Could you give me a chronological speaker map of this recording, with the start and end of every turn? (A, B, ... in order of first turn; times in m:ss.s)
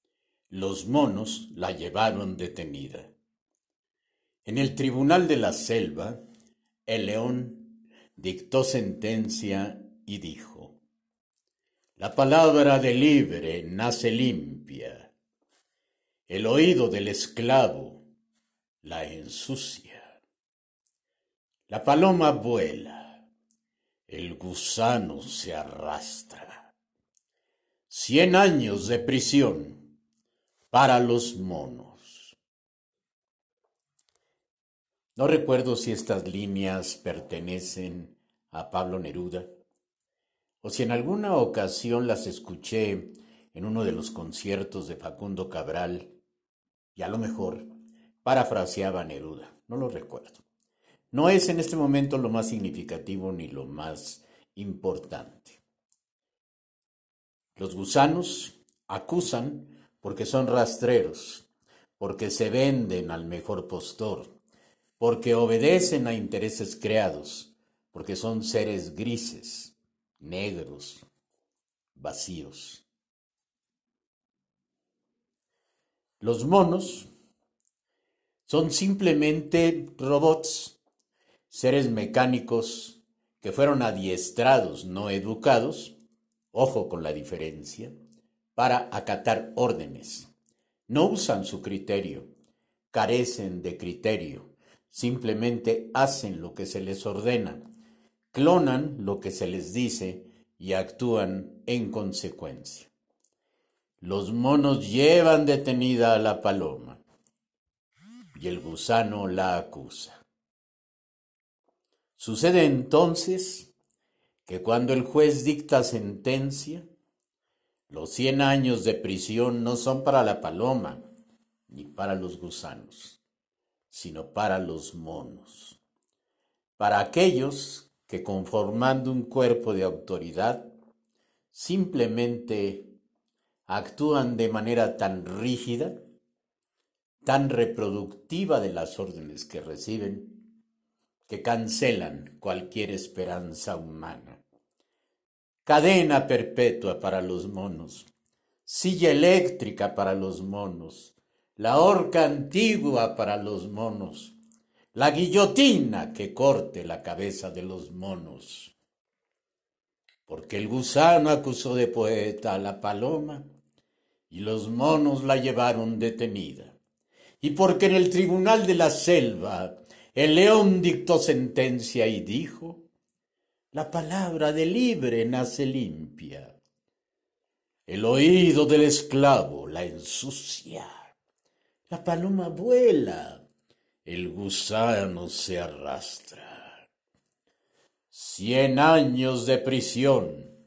0:00.5-0:03.1 A
0:04.4-0:06.2 A
0:06.9-0:10.8 A
0:12.0-0:15.1 A
0:16.3-0:18.0 A
0:18.8-0:20.2 A
0:21.7-0:23.2 A
0:24.1-0:26.7 A
0:27.9-0:29.8 A
0:30.7-0:32.4 A
0:35.2-0:39.5 A
0:40.6-0:46.1 A
0:47.0-0:47.6 A
0:48.2-0:50.4 A
0:51.1-0:55.6 A
0:57.6-1:01.5 A
1:02.0-1:04.3 A
1:05.0-1:11.0 A
1:12.0-1:12.8 A
1:16.2-1:17.1 A
1:18.5-1:20.8 A
1:21.5-1:26.0 A
1:26.5-1:27.9 A
1:28.6-1:30.3 A
1:30.9-1:32.3 A
1:32.9-1:37.6 A
1:38.3-1:42.9 A
1:44.0-1:47.0 A
1:48.4-1:50.2 A
1:52.2-1:53.7 A
1:54.5-1:56.9 A
1:57.9-2:01.0 A
2:01.7-2:03.2 A
2:03.9-2:05.8 A
2:06.8-2:10.7 A
2:11.5-2:12.9 A
2:13.7-2:16.0 A
2:17.2-2:20.4 A
2:21.3-2:24.4 A
2:25.7-2:28.1 A
2:28.7-2:34.4 A
2:34.9-2:38.7 A
2:40.3-2:43.4 A
2:44.3-2:46.8 A
2:47.4-2:52.9 A
2:53.7-2:56.6 A
2:57.9-3:01.1 A
3:01.9-3:03.4 A
3:04.0-3:06.8 A
3:08.1-3:10.5 A